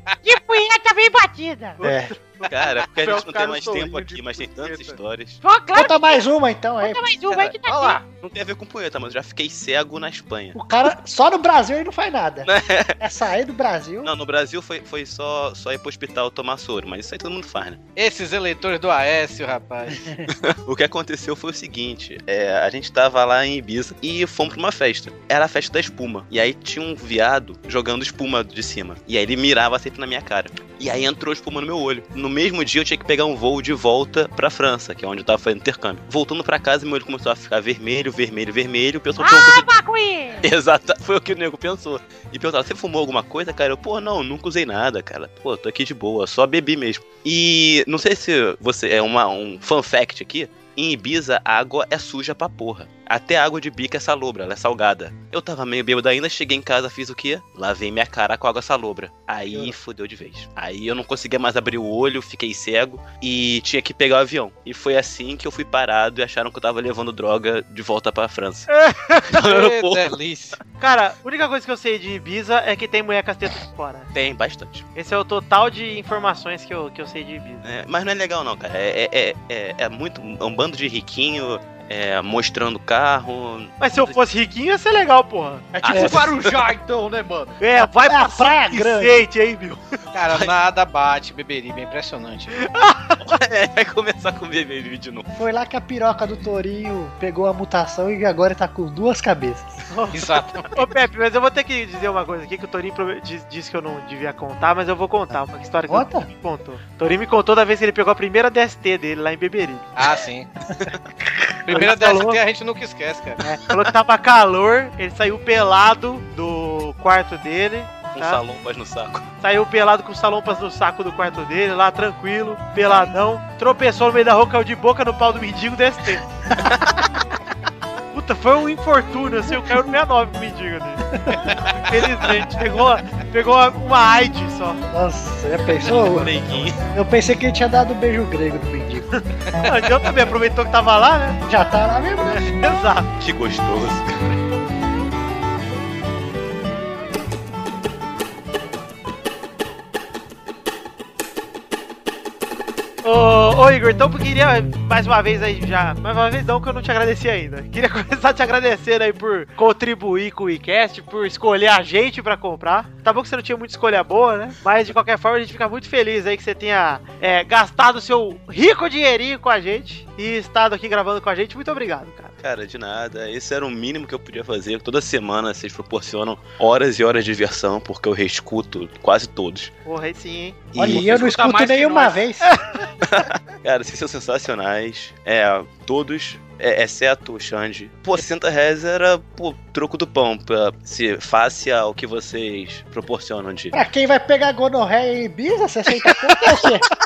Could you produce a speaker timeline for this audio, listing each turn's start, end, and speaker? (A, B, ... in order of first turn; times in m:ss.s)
0:00.2-0:01.8 A
0:01.8-0:05.0 B
0:01.8-0:02.1 C
0:02.5-0:05.4 D
0:05.4-0:06.3 A
0:05.7-0:07.0 C
0:06.8-0:08.0 A
0:07.3-0:10.6 D
0:07.7-0:08.0 B
0:10.5-0:14.1 C
0:12.4-0:13.0 D
0:14.0-0:17.8 D
0:18.0-0:20.1 E
0:20.3-0:39.7 D
0:39.2-0:40.5 A
0:40.4-1:08.7 D
0:59.5-0:59.7 C
1:08.8-1:09.2 F
1:09.3-1:10.6 E
1:09.4-1:10.2 D
1:10.8-1:14.1 F
1:14.1-1:14.9 D
1:15.0-1:17.6 F
1:17.6-1:24.2 D
1:23.8-1:25.7 F
1:25.8-1:27.6 B
1:25.8-1:26.3 C
1:25.8-1:26.7 D
1:27.6-1:29.8 F
1:28.0-1:29.2 C
1:30.1-1:32.6 E
1:30.2-1:30.6 D
1:32.6-1:33.2 F
1:33.2-1:35.3 D
1:35.4-1:39.7 C
1:39.9-1:40.2 F
1:40.1-1:40.7 E
1:40.7-1:49.9 F
1:45.9-1:46.3 C
1:50.0-1:50.5 E
1:51.7-1:53.4 E
1:51.7-1:52.4 F
1:53.4-1:58.4 F
1:58.1-1:59.3 D
1:59.4-2:06.2 F
2:06.6-2:07.0 D
2:08.1-2:11.0 F
2:11.1-2:11.5 C
2:11.9-2:14.8 F
2:14.9-2:16.4 C
2:15.8-2:16.8 D
2:16.9-2:19.1 C
2:19.6-2:21.4 F
2:21.5-2:22.5 C
2:22.3-2:23.1 F
2:23.2-2:24.2 D
2:33.0-2:52.3 F
2:52.4-2:59.7 D
2:59.8-3:00.7 F
3:00.7-3:01.5 D
3:00.8-3:02.5 C
3:00.8-3:02.2 B
3:02.4-3:02.8 F
3:03.1-3:13.8 D
3:13.7-3:16.9 C